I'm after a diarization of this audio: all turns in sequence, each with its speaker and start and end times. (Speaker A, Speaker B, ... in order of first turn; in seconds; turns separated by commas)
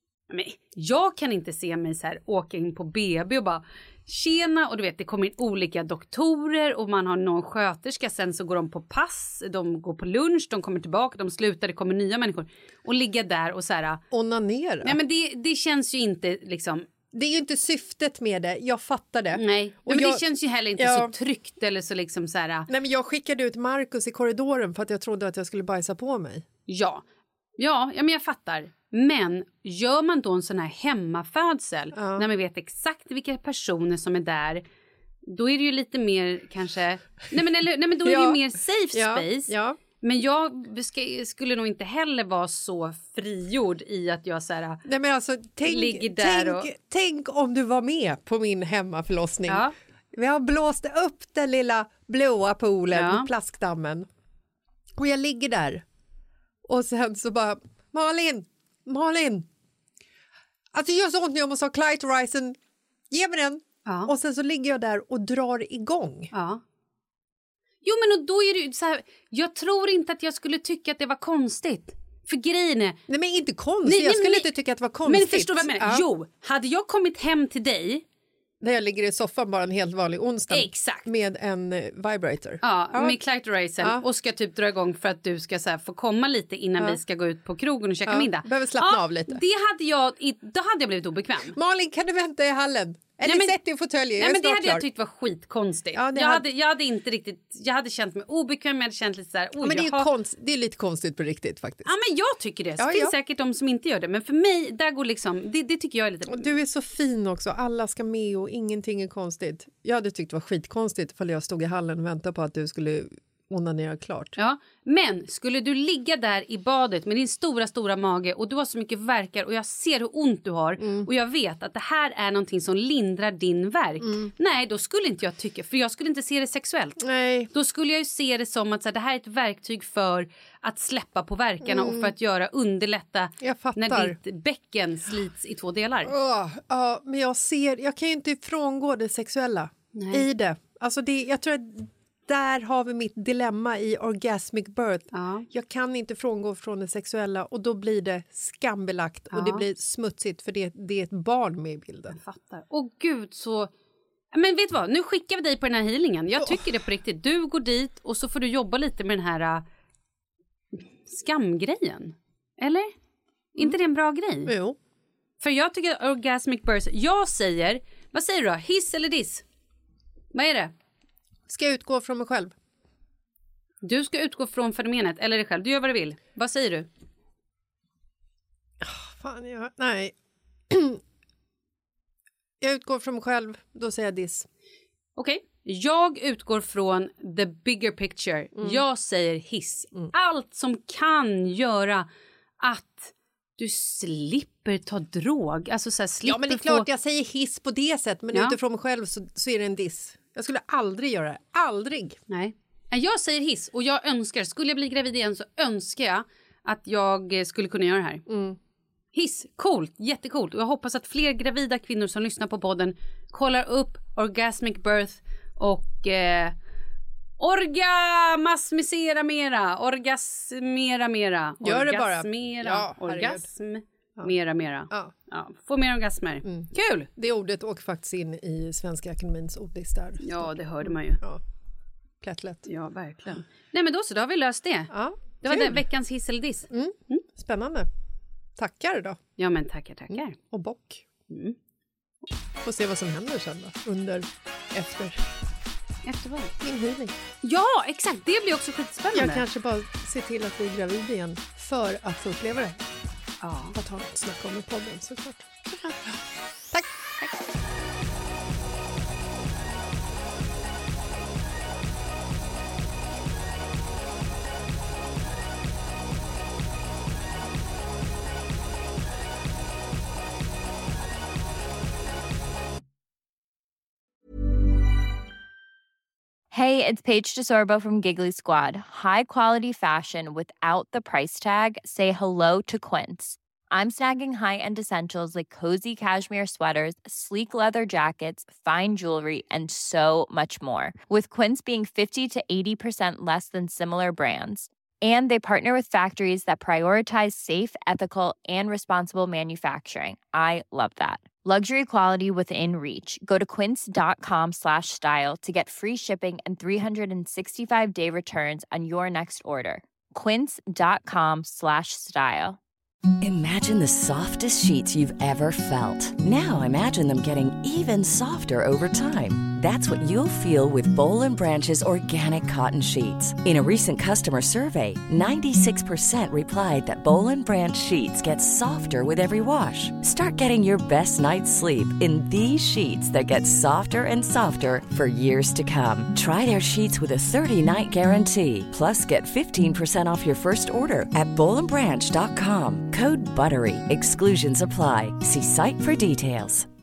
Speaker A: 0.3-14.0, Speaker B: 14.1-14.9, Speaker A: 14.8-16.9, Speaker B: 17.1-20.2, Speaker A: 19.3-22.7, Speaker B: 20.7-21.1, Speaker B: 22.7-26.4, Speaker A: 26.7-27.0, Speaker A: 27.6-34.6, Speaker B: 31.9-32.2, Speaker A: 35.3-44.8, Speaker B: 38.0-38.4, Speaker B: 38.9-39.8, Speaker B: 44.9-54.1, Speaker A: 45.6-46.7, Speaker A: 49.5-49.7, Speaker A: 52.9-53.3, Speaker B: 55.0-55.8, Speaker B: 56.6-59.5, Speaker B: 60.7-62.6, Speaker B: 63.1-66.3, Speaker A: 66.3-66.6, Speaker A: 67.8-73.0, Speaker B: 73.1-76.0, Speaker A: 73.8-74.5, Speaker A: 75.0-78.0, Speaker B: 78.6-83.2, Speaker A: 80.5-81.1, Speaker A: 82.6-91.5, Speaker B: 88.0-89.4, Speaker B: 91.5-94.9, Speaker A: 93.2-100.1, Speaker B: 95.9-96.4, Speaker B: 99.6-101.9, Speaker A: 101.8-106.5, Speaker B: 102.8-103.1, Speaker B: 106.3-114.3, Speaker A: 114.3-136.1, Speaker B: 120.8-121.1, Speaker B: 124.0-124.3, Speaker B: 127.0-127.5, Speaker B: 131.6-132.1, Speaker B: 133.4-134.2, Speaker B: 136.0-152.2, Speaker A: 139.9-140.3, Speaker A: 145.1-145.5, Speaker A: 149.3-149.6, Speaker A: 152.2-153.7, Speaker A: 154.3-159.6, Speaker A: 161.1-162.9, Speaker A: 163.5-164.5, Speaker B: 164.4-164.8, Speaker A: 165.4-169.4, Speaker A: 170.3-170.7, Speaker B: 171.5-172.5, Speaker A: 173.8-176.9, Speaker B: 178.8-180.1, Speaker B: 180.7-181.0, Speaker B: 182.6-184.5, Speaker A: 185.2-192.1, Speaker A: 192.6-196.8, Speaker B: 196.2-202.2, Speaker A: 202.3-208.2, Speaker B: 208.3-208.6, Speaker A: 209.1-216.6, Speaker A: 217.4-227.1, Speaker B: 221.6-223.4, Speaker B: 226.4-231.4, Speaker A: 230.2-231.2, Speaker B: 232.2-232.7, Speaker A: 232.7-234.9, Speaker B: 234.9-235.8, Speaker A: 235.4-237.2, Speaker B: 236.7-237.9, Speaker B: 238.6-239.2, Speaker A: 239.4-240.3, Speaker B: 240.1-241.0, Speaker A: 241.3-241.6, Speaker B: 242.6-245.2, Speaker A: 246.0-246.5, Speaker B: 246.6-247.1, Speaker A: 247.4-249.4, Speaker B: 249.1-252.8, Speaker A: 253.4-253.7, Speaker B: 253.7-255.5, Speaker A: 255.7-256.1, Speaker B: 256.7-257.0, Speaker C: 276.5-312.6, Speaker D: 313.2-346.7